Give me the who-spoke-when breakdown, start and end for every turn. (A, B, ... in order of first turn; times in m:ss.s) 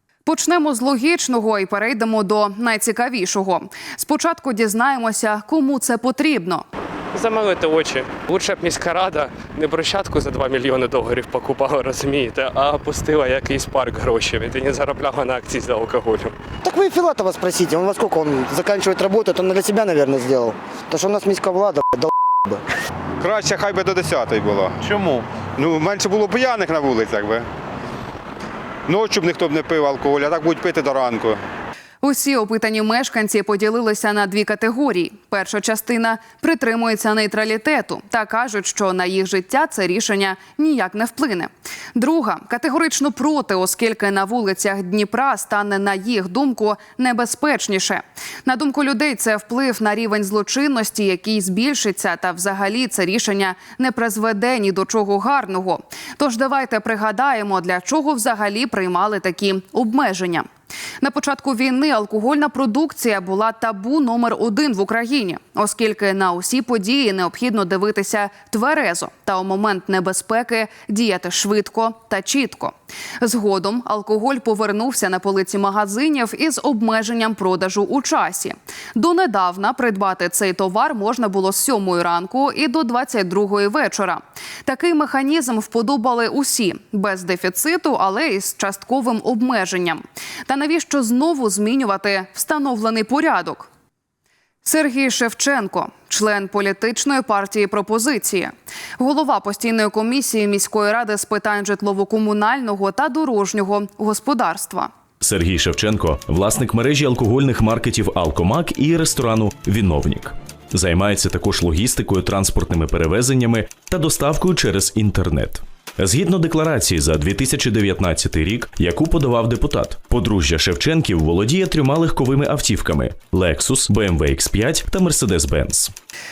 0:00.2-0:06.6 A
0:07.1-0:16.3 B
0:16.6-0:22.6 C
0:23.2-0:27.5 D
0:28.9-0:31.4 D
0:32.0-1:00.5 A
1:01.0-1:33.7 A
1:34.6-1:44.9 A
1:45.2-2:05.9 E